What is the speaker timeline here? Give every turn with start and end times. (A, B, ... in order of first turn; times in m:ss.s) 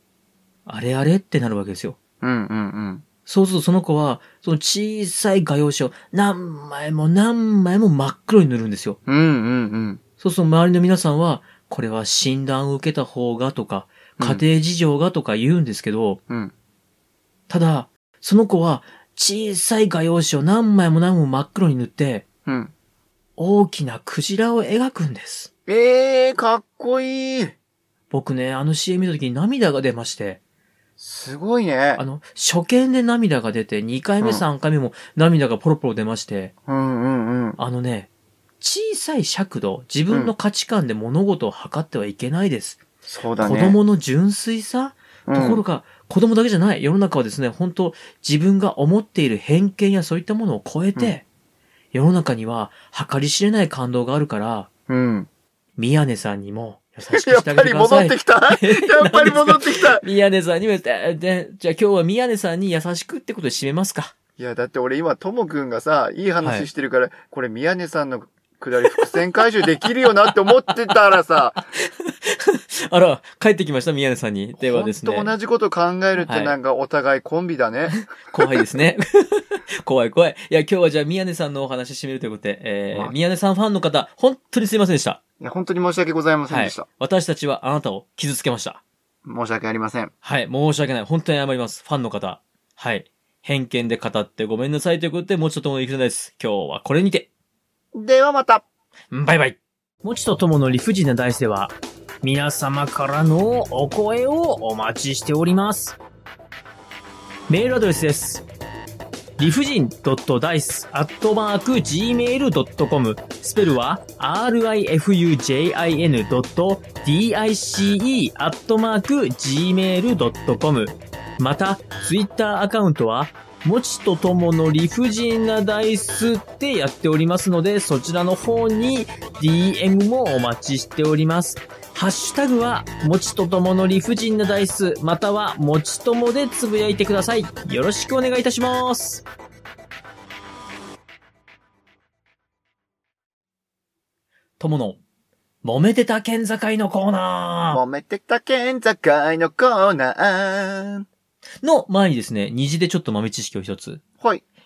0:00.6-0:02.0 A
0:02.2-0:03.0 B
0:03.2-0:09.0 A
0:09.1-0:10.0 B
0:10.2-0:16.2 A
0:14.2-0:14.4 B
0:17.5-0:22.2 A
0:22.4-0:22.7 B
0:23.4-0:25.5 A
0:25.7-0:27.5 B
0:28.1-0:30.4 A
0:31.0-0:32.0 B
0:32.0-0:36.5 A
0:36.7-0:37.6 B
0:37.6-0:38.1 A
0:38.6-0:42.8 A
0:43.0-0:43.8 B
0:43.4-0:51.2 A
0:45.3-0:45.6 B
0:51.9-0:54.7 A
0:54.9-0:55.3 B
0:55.8-1:04.1 A
0:57.1-1:00.0 B
1:04.4-1:11.6 B
1:06.4-1:06.7 A
1:11.6-1:15.3 A
1:14.6-1:18.1 B
1:16.2-1:16.6 A
1:18.1-1:25.2 A
1:25.4-1:26.8 B
1:26.5-1:28.8 A
1:29.2-1:30.1 B
1:30.2-1:37.3 A
1:37.9-1:38.6 B
1:39.1-1:46.0 A
1:47.5-1:48.4 A
1:49.4-2:19.2 A
2:24.6-2:25.0 A
2:25.6-2:27.8 A
2:27.7-2:31.0 B
2:31.6-2:34.0 A